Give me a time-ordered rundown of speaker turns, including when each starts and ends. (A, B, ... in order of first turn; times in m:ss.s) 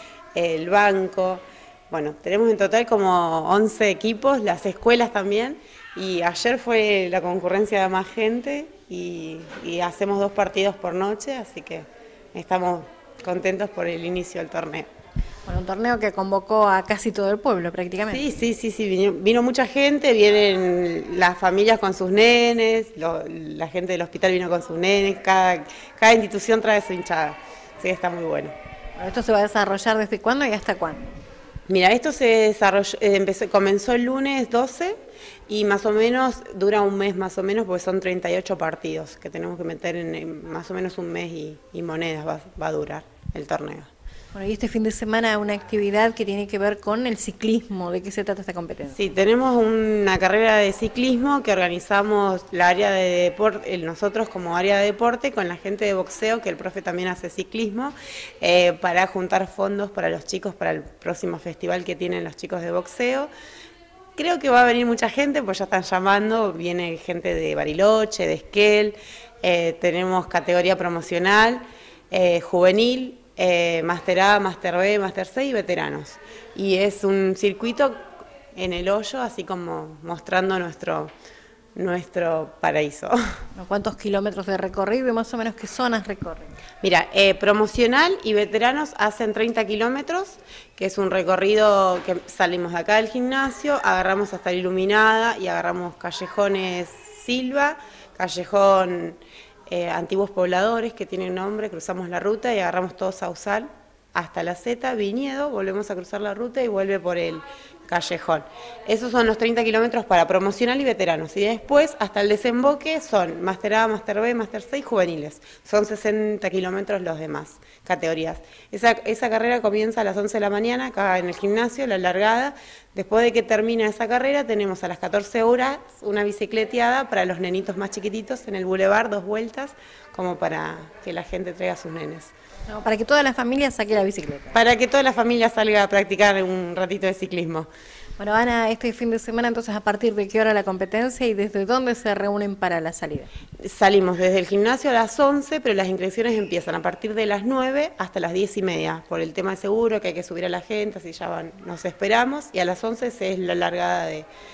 0:00.4-0:14.9 A
0:15.5-0:18.3 B
0:18.1-0:28.5 A
0:29.0-0:31.2 B
0:31.7-0:35.0 A
0:35.5-0:43.9 A
0:44.3-0:49.0 B
0:48.9-1:03.3 A
1:04.2-1:21.1 A
1:21.8-1:23.2 A
1:23.6-1:26.5 B
1:26.8-2:12.3 A
2:12.7-2:14.6 B
2:14.5-2:17.7 A
2:18.2-2:23.3 B
2:23.6-2:34.3 A